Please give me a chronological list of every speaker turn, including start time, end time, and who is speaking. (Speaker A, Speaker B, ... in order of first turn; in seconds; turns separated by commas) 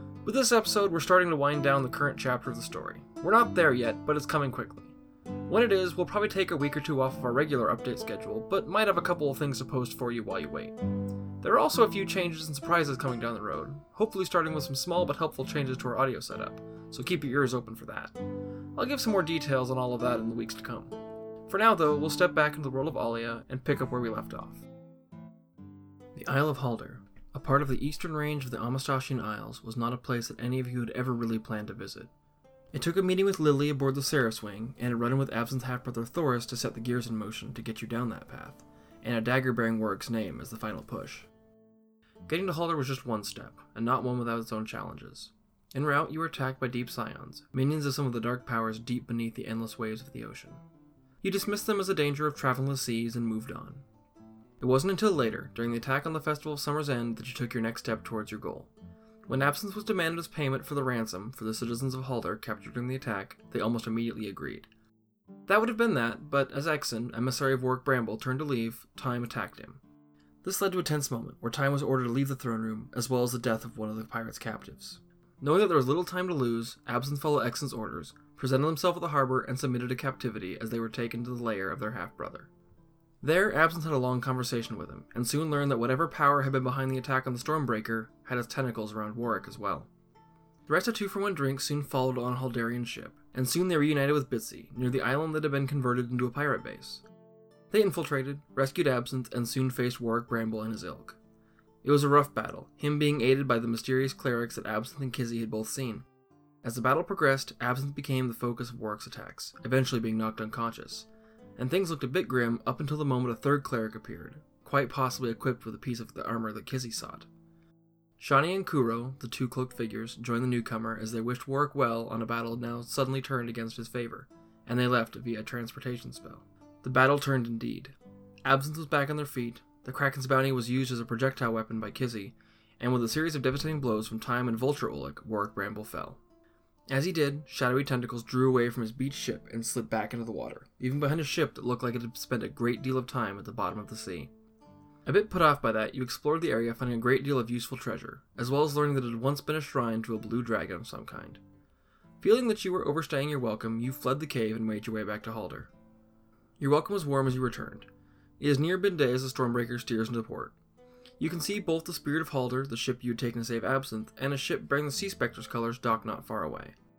Speaker A: 0.2-4.9, Speaker A: 5.5-10.7, Speaker A: 11.4-18.1, Speaker A: 18.8-20.9, Speaker A: 21.5-24.6, Speaker A: 26.1-32.1, Speaker A: 32.7-41.3, Speaker A: 42.2-50.6, Speaker A: 51.2-53.8, Speaker A: 54.6-58.7, Speaker A: 59.3-64.7, Speaker A: 65.5-69.8, Speaker A: 70.4-82.5, Speaker A: 83.2-89.9, Speaker A: 90.7-97.0, Speaker A: 97.7-101.2, Speaker A: 101.8-106.0, Speaker A: 106.6-117.3, Speaker A: 118.2-136.2, Speaker A: 136.9-144.3, Speaker A: 145.1-151.4, Speaker A: 152.2-155.7, Speaker A: 156.6-157.9, Speaker A: 158.4-160.5, Speaker A: 161.2-166.7